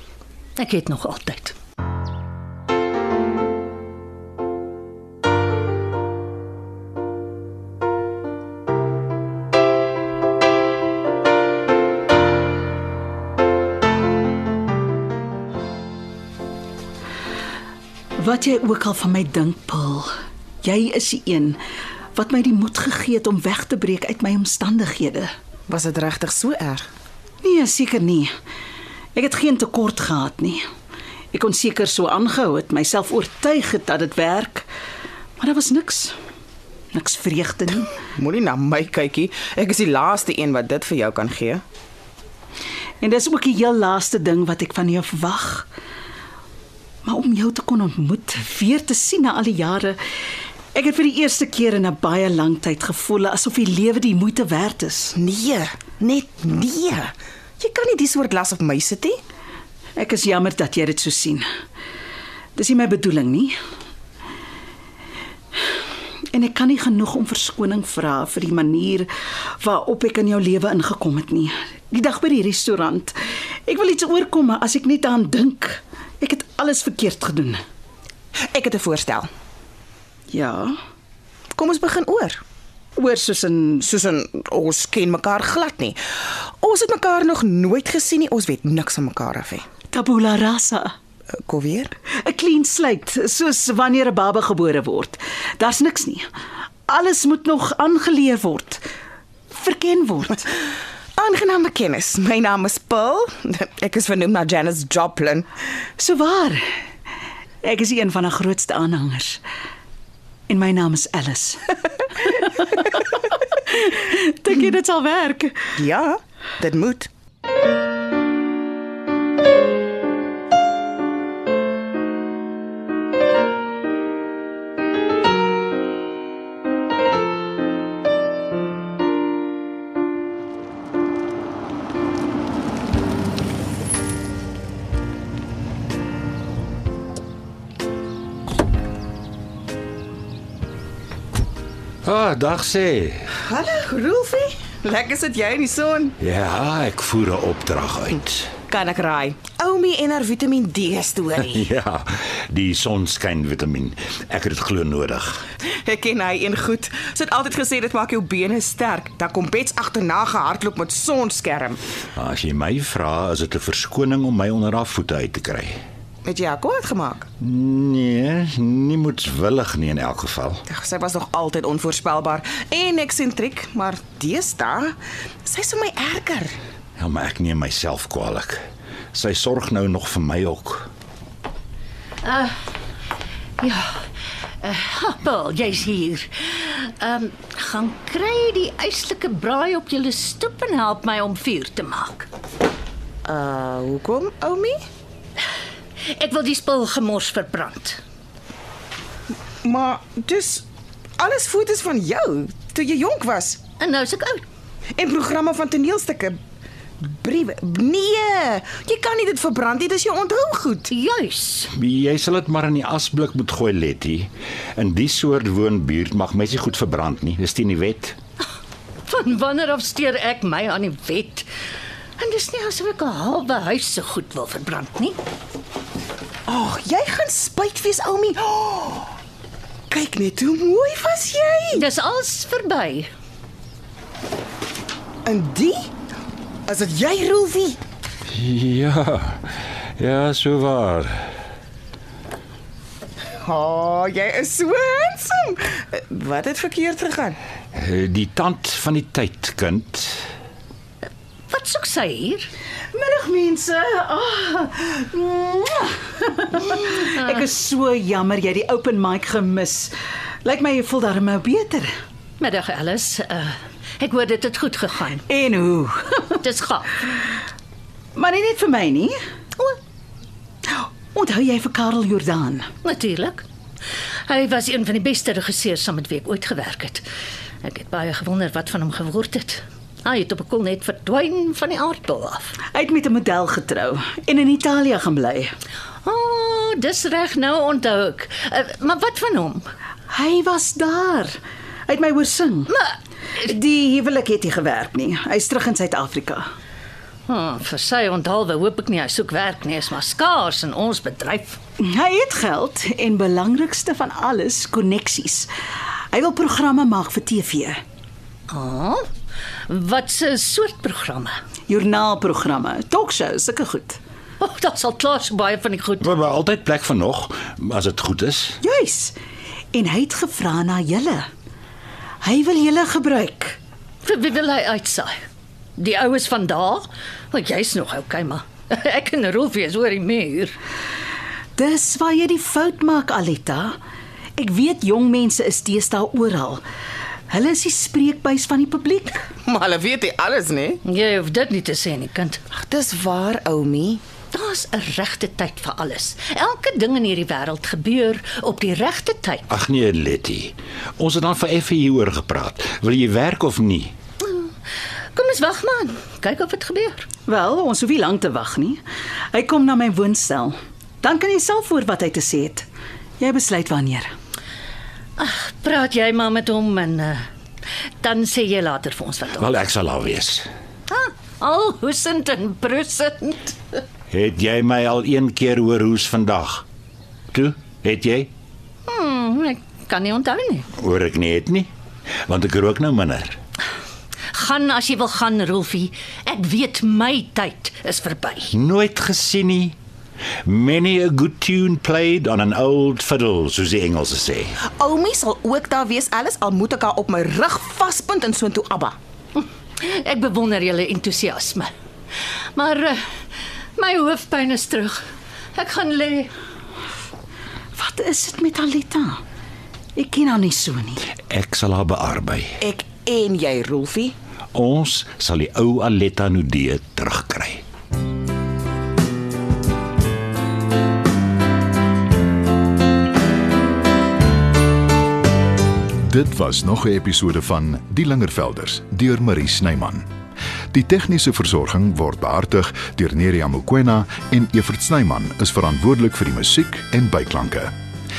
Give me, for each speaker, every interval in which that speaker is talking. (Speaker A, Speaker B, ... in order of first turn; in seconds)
Speaker A: 0.6-1.6, 182.2-182.6, 183.6-184.0, 184.6-192.3, 196.0-198.0, 203.8-204.4, 210.9-211.7, 219.1-221.5, 222.2-225.2, 231.7-233.1, 251.5-252.5, 262.4-265.2, 266.3-267.1, 272.8-273.5, 274.3-277.1, 277.6-282.6, 286.1-289.7, 292.7-293.0, 297.3-301.6, 308.5-309.0, 309.7-311.4, 314.4-316.1, 324.0-325.1, 325.8-330.6, 340.9-342.4, 344.3-349.5, 354.2-354.5, 355.1-357.1, 365.2-367.2, 368.0-369.5, 370.9-373.6, 378.9-380.7, 384.3-388.5, 399.4-401.7, 402.6-403.0, 403.8-405.0, 405.6-406.3
Speaker B: 18.2-20.1, 20.6-21.6, 22.1-25.3, 27.4-28.3, 29.1-30.6, 31.3-34.7, 35.4-36.1, 36.9-37.9, 43.0-45.7, 47.0-50.0, 50.7-55.2, 60.0-61.4, 62.6-63.6, 66.3-69.1, 69.6-77.6, 80.3-80.7, 83.0-83.9, 89.9-90.9, 92.2-96.3, 96.9-98.8, 99.5-100.5, 106.0-106.7, 107.6-109.4, 110.5-115.7, 252.9-259.9, 260.4-261.9, 265.3-266.2, 268.1-269.1, 270.7-272.7, 282.7-285.5, 290.1-291.4, 291.9-292.7, 293.4-296.5, 301.8-305.5, 306.1-307.8, 311.7-314.0, 318.6-319.1, 319.7-321.3, 322.2-323.6, 331.6-333.7, 334.4-336.6, 337.3-339.2, 357.3-358.8, 359.3-362.7, 363.2-364.1, 407.8-409.2, 410.0-411.1
Speaker C: 25.7-26.9, 38.1-41.6, 55.2-59.2, 78.5-79.3, 81.5-82.4, 83.8-86.0, 86.6-89.7, 91.4-91.9, 101.2-105.5, 115.8-117.1, 143.4-146.2, 148.7-151.7, 155.7-161.8, 166.2-167.3, 170.7-174.9, 175.5-176.6, 193.3-194.8, 199.6-200.7, 201.2-203.6, 204.9-206.4, 207.0-210.9, 226.5-229.1, 229.9-231.9, 235.3-235.8, 236.7-237.8, 243.4-247.4, 339.4-340.8, 342.5-344.0, 394.7-398.9, 412.6-414.1
Speaker D: 142.0-143.3, 146.2-148.5, 151.4-155.4, 162.2-165.8, 167.4-170.6, 177.0-178.6, 179.1-180.9, 211.7-218.2, 238.3-241.3, 247.7-250.2, 316.0-318.6, 349.5-353.9, 369.4-370.5, 374.1-376.7, 377.3-378.3, 380.8-381.7, 382.3-383.4, 388.5-389.8, 390.4-394.6, 411.3-412.6, 414.5-417.6
Speaker E: 426.1-430.1, 430.7-437.7